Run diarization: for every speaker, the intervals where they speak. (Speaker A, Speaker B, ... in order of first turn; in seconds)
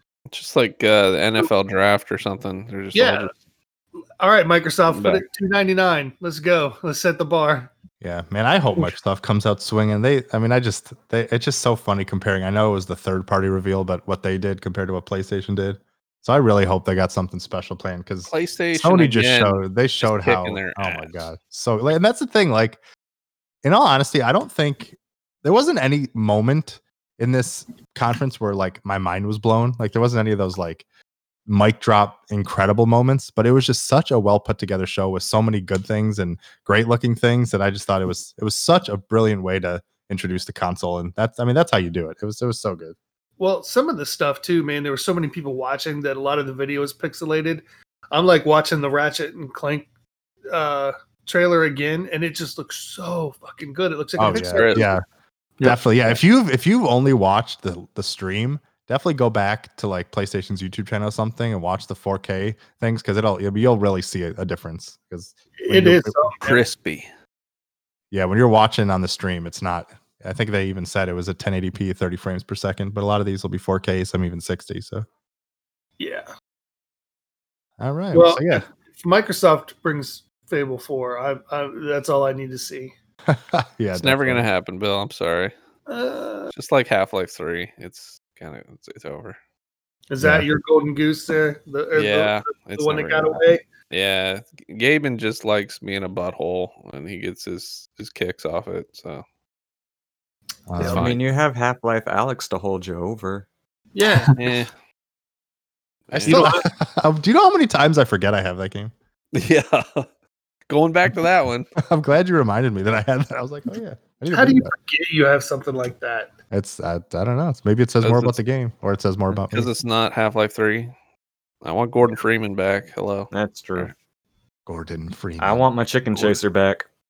Speaker A: 0.3-3.4, 4.9-5.2, 18.3-21.2, 54.3-54.9, 66.4-67.1, 84.0-85.5, 86.5-89.4, 92.0-99.2, 100.8-101.2, 104.3-104.7, 106.1-106.5, 109.3-110.1, 110.7-111.7, 118.0-118.3, 119.5-120.9, 121.6-123.9
Speaker B: 2.9-3.3, 4.2-7.7, 43.4-49.9, 50.5-55.0, 65.6-66.6, 76.0-76.3, 78.1-82.9, 85.9-86.5, 90.1-93.6, 103.9-104.3, 106.3-106.7, 114.3-116.3
Speaker C: 8.0-22.8, 23.6-30.9, 31.5-43.0, 54.2-55.0, 55.6-66.2, 68.1-75.1, 77.8-78.7, 83.3-84.5, 90.2-90.5, 100.7-101.1, 106.1-108.9, 111.8-114.7, 116.5-119.7, 124.7-126.4
Speaker D: 100.8-103.5, 123.3-123.9, 125.4-126.9